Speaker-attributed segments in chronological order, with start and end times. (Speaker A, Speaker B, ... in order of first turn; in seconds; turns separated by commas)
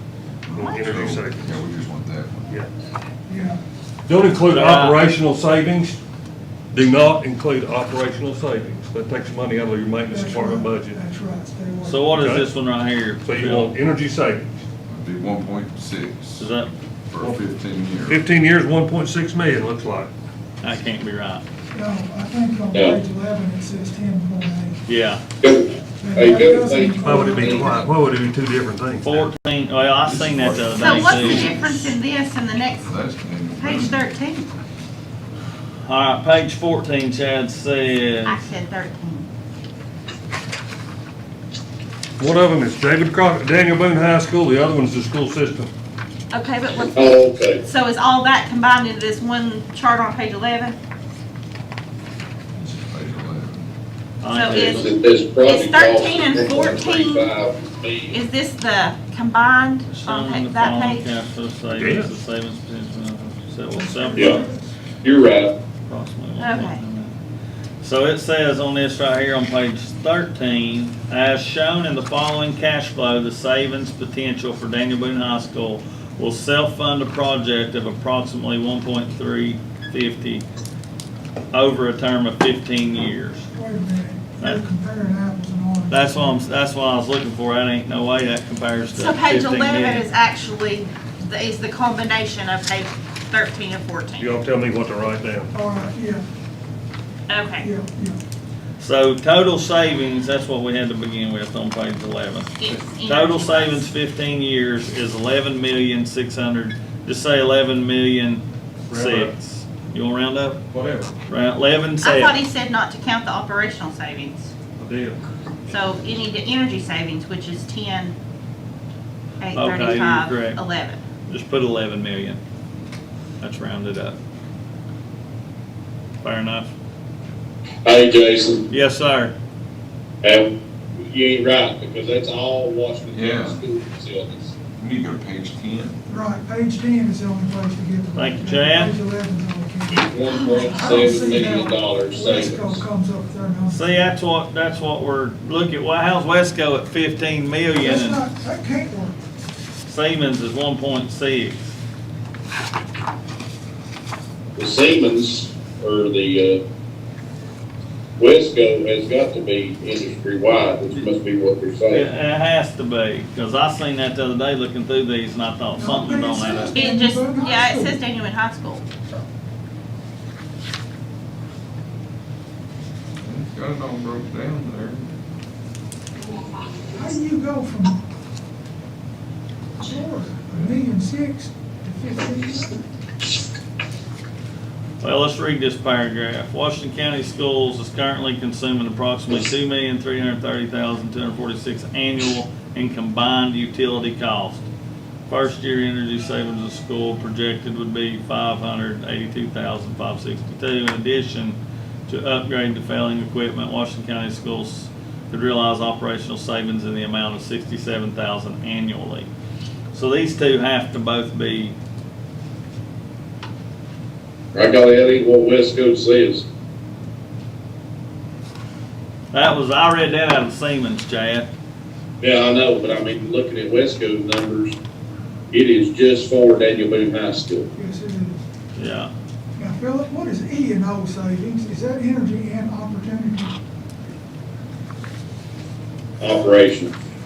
Speaker A: 0.4-2.5, Speaker B: 0.5-1.5, Speaker C: 3.3-3.6, Speaker B: 4.0-6.0, Speaker D: 4.5-5.0, Speaker B: 6.7-11.0, Speaker C: 10.1-12.1, Speaker D: 11.8-13.7, Speaker B: 12.1-12.5, Speaker B: 13.2-14.5, Speaker A: 14.9-16.5, Speaker D: 16.4-16.7, Speaker A: 17.1-18.2, Speaker B: 18.1-20.1, Speaker D: 20.6-21.4, Speaker C: 21.7-24.8, Speaker E: 22.7-23.0, Speaker D: 24.9-25.2, Speaker E: 25.3-27.9, Speaker C: 26.0-27.9, Speaker B: 27.0-29.3, Speaker D: 29.0-31.6, Speaker A: 30.1-31.9, Speaker F: 30.7-33.0, Speaker A: 32.8-34.1, Speaker F: 33.6-34.5, Speaker D: 35.8-38.4, Speaker F: 38.2-39.3, Speaker B: 42.2-45.7, Speaker F: 46.3-47.0, Speaker E: 46.8-47.6, Speaker F: 47.6-50.8, Speaker A: 52.5-53.7, Speaker D: 54.2-54.9, Speaker F: 54.3-54.9, Speaker E: 54.6-58.2, Speaker F: 55.4-57.3, Speaker F: 58.1-61.1, Speaker D: 59.9-64.4, Speaker B: 61.7-62.2, Speaker C: 63.7-64.8, Speaker E: 65.0-65.5, Speaker D: 65.9-67.1, Speaker F: 66.4-66.8, Speaker D: 67.8-80.4, Speaker D: 81.5-83.5, Speaker C: 83.5-86.5, Speaker D: 85.9-90.1, Speaker F: 89.0-94.3, Speaker B: 94.2-95.5, Speaker C: 95.5-96.2, Speaker F: 97.3-97.7, Speaker C: 97.6-98.2, Speaker D: 98.8-102.5, Speaker F: 102.6-103.9, Speaker D: 103.1-110.6, Speaker B: 108.9-109.4, Speaker B: 110.7-111.1, Speaker D: 111.3-112.3, Speaker F: 112.0-114.5, Speaker B: 114.8-115.2, Speaker F: 115.7-118.2, Speaker F: 119.4-121.0, Speaker D: 119.5-120.6, Speaker D: 121.3-122.4, Speaker D: 123.4-124.2, Speaker D: 126.2-126.7, Speaker E: 127.8-128.7, Speaker D: 128.7-129.3, Speaker E: 130.2-134.5, Speaker A: 133.1-133.6, Speaker A: 134.8-136.0, Speaker C: 136.1-143.9, Speaker D: 138.2-138.9, Speaker E: 139.9-142.8, Speaker D: 143.7-148.2, Speaker C: 147.8-149.2, Speaker D: 149.9-151.7, Speaker E: 154.6-156.6, Speaker E: 158.2-162.1, Speaker D: 161.9-166.8, Speaker C: 165.8-168.0, Speaker F: 166.7-168.8, Speaker A: 173.2-175.1, Speaker C: 176.9-178.0, Speaker C: 179.8-182.8, Speaker D: 185.0-194.7, Speaker D: 195.3-209.3, Speaker D: 209.9-211.8, Speaker E: 214.5-216.4, Speaker D: 219.3-221.5, Speaker E: 222.2-224.8, Speaker E: 225.5-227.7, Speaker C: 227.8-228.4, Speaker D: 228.8-229.1, Speaker C: 229.6-233.6, Speaker E: 236.2-236.9